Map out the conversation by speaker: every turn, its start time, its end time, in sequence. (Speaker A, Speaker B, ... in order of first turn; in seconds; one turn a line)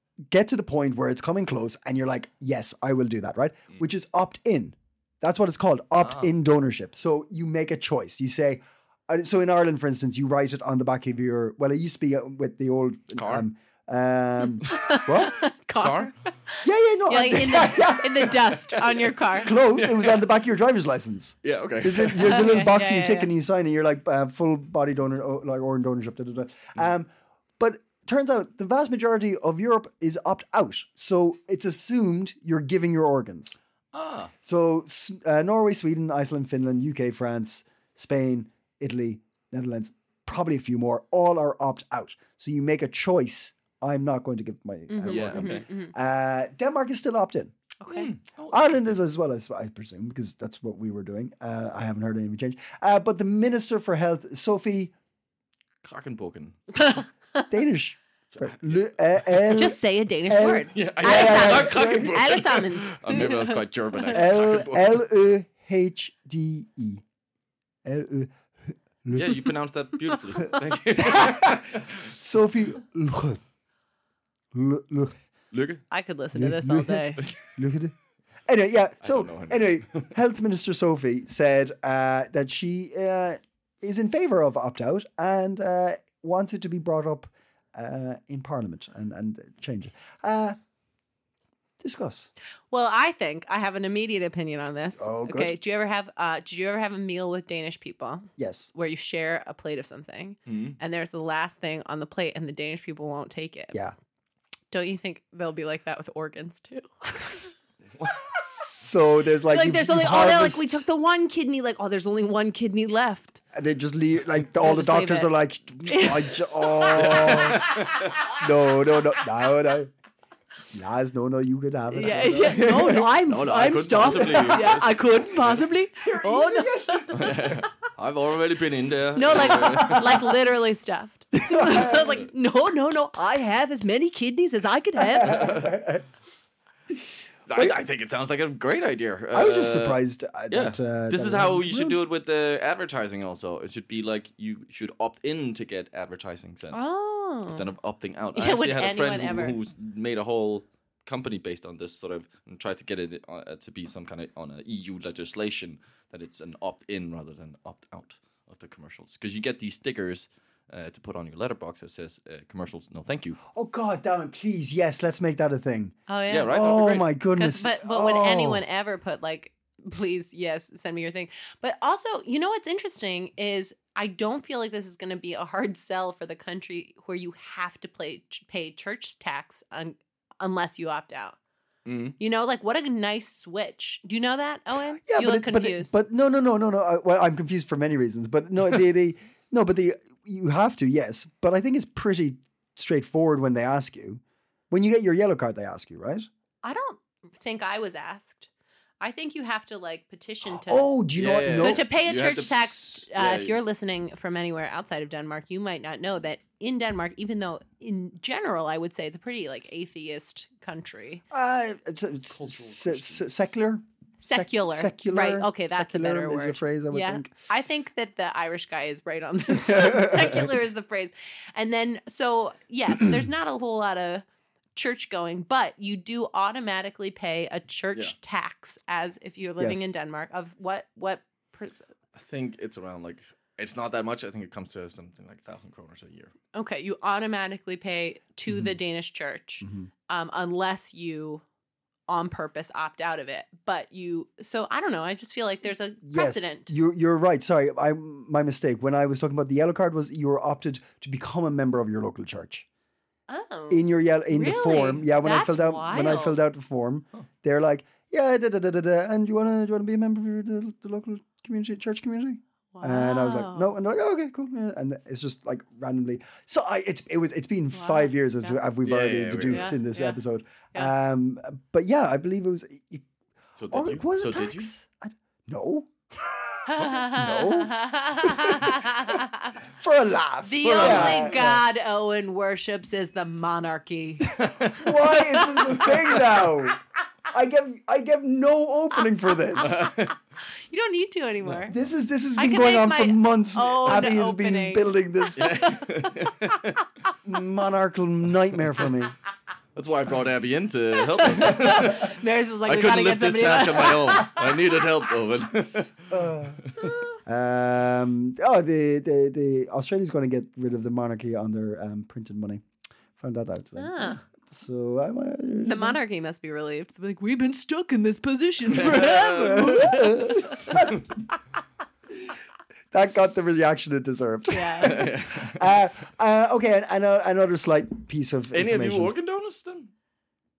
Speaker A: 0.3-15.4
Speaker B: 6.0-6.3
Speaker B: 13.1-13.4
Speaker C: 14.4-19.5
Speaker B: 15.8-16.1
Speaker A: 16.6-18.4
Speaker A: 19.4-33.6
Speaker B: 19.6-20.2
Speaker B: 21.4-22.5
Speaker C: 22.2-23.3
Speaker B: 33.9-34.3
Speaker A: 34.4-47.5
Speaker C: 44.9-45.9
Speaker B: 45.0-45.6
Speaker C: 47.8-48.1
Speaker B: 47.9-49.0
Speaker A: 48.5-54.9
Speaker B: 55.8-56.6
Speaker C: 56.8-57.5
Speaker A: 57.5-62.2
Speaker B: 58.3-59.5
Speaker C: 59.5-63.6
Speaker B: 60.7-65.0
Speaker A: 64.1-67.0
Speaker A: 67.8-69.4
Speaker B: 69.1-72.0
Speaker A: 71.0-73.4
Speaker A: 74.5-75.2
Speaker B: 75.5-75.8
Speaker C: 75.9-77.2
Speaker A: 76.3-77.9
Speaker A: 78.5-90.6
Speaker B: 79.0-80.1
Speaker A: 91.8-92.3
Speaker C: 92.7-103.8
Speaker A: 95.0-95.5
Speaker A: 98.4-98.7
Speaker B: 100.5-100.8
Speaker C: 104.7-107.5
Speaker A: 108.6-110.8
Speaker C: 109.5-113.4
Speaker A: 113.5-119.9
Speaker C: 114.6-115.3
Speaker C: 115.8-117.2
Speaker B: 116.9-118.2
Speaker A: 120.7-123.2
Speaker C: 121.9-127.1
Speaker B: 123.2-125.5
Speaker A: 124.0-124.8
Speaker A: 126.0-127.5
Speaker B: 127.1-130.3
Speaker C: 129.2-135.6
Speaker A: 129.6-130.2
Speaker A: 131.4-132.0
Speaker B: 131.9-132.2
Speaker A: 135.0-136.0
Speaker B: 135.2-135.8
Speaker B: 137.5-146.8
Speaker A: 139.3-142.0
Speaker C: 146.7-147.6
Speaker B: 147.4-163.4
Speaker C: 148.3-149.6
Speaker A: 163.5-165.9
Speaker C: 166.1-166.6
Speaker B: 166.3-167.1
Speaker A: 166.5-168.6
Speaker C: 167.3-181.3
Speaker B: 181.8-182.2
Speaker C: 182.2-185.9
Speaker A: 185.1-196.3
Speaker C: 196.6-198.5
Speaker C: 199.0-200.9
Speaker A: 200.4-202.4
Speaker B: 201.2-203.6
Speaker C: 201.6-211.2
Speaker A: 211.3-217.3
Speaker B: 212.3-213.3
Speaker C: 214.2-231.9
Speaker A: 219.7-220.5
Speaker A: 229.6-229.9
Speaker B: 232.1-236.3
Speaker C: 236.5-241.4
Speaker A: 238.5-238.8
Speaker A: 239.6-239.9
Speaker C: 242.1-246.7
Speaker A: 246.0-252.7
Speaker C: 253.3-256.4
Speaker A: 253.7-273.0
Speaker C: 262.7-263.7
Speaker C: 267.7-268.6
Speaker B: 268.8-269.7
Speaker C: 269.5-270.2
Speaker B: 273.6-274.7
Speaker A: 273.7-275.9
Speaker C: 276.6-279.6
Speaker A: 276.9-279.1
Speaker A: 279.8-281.6
Speaker C: 280.4-284.4
Speaker B: 280.6-281.4
Speaker B: 284.4-284.8
Speaker A: 284.7-289.8
Speaker C: 285.1-285.9
Speaker C: 289.5-290.1
Speaker B: 289.6-290.1
Speaker C: 290.7-291.7
Speaker A: 291.7-295.6
Speaker C: 292.4-294.9
Speaker B: 295.4-296.8
Speaker C: 295.4-296.3
Speaker A: 297.2-299.1
Speaker B: 299.7-306.1
Speaker C: 301.2-304.5
Speaker A: 306.1-306.6
Speaker B: 306.6-306.9
Speaker A: 307.2-312.6
Speaker A: 313.2-316.0
Speaker C: 313.8-314.2
Speaker C: 315.6-320.7
Speaker B: 318.7-319.9
Speaker A: 319.7-320.9
Speaker B: 320.7-321.0
Speaker A: 322.9-329.1
Speaker C: 324.5-325.1
Speaker B: 324.8-325.6
Speaker B: 328.5-329.9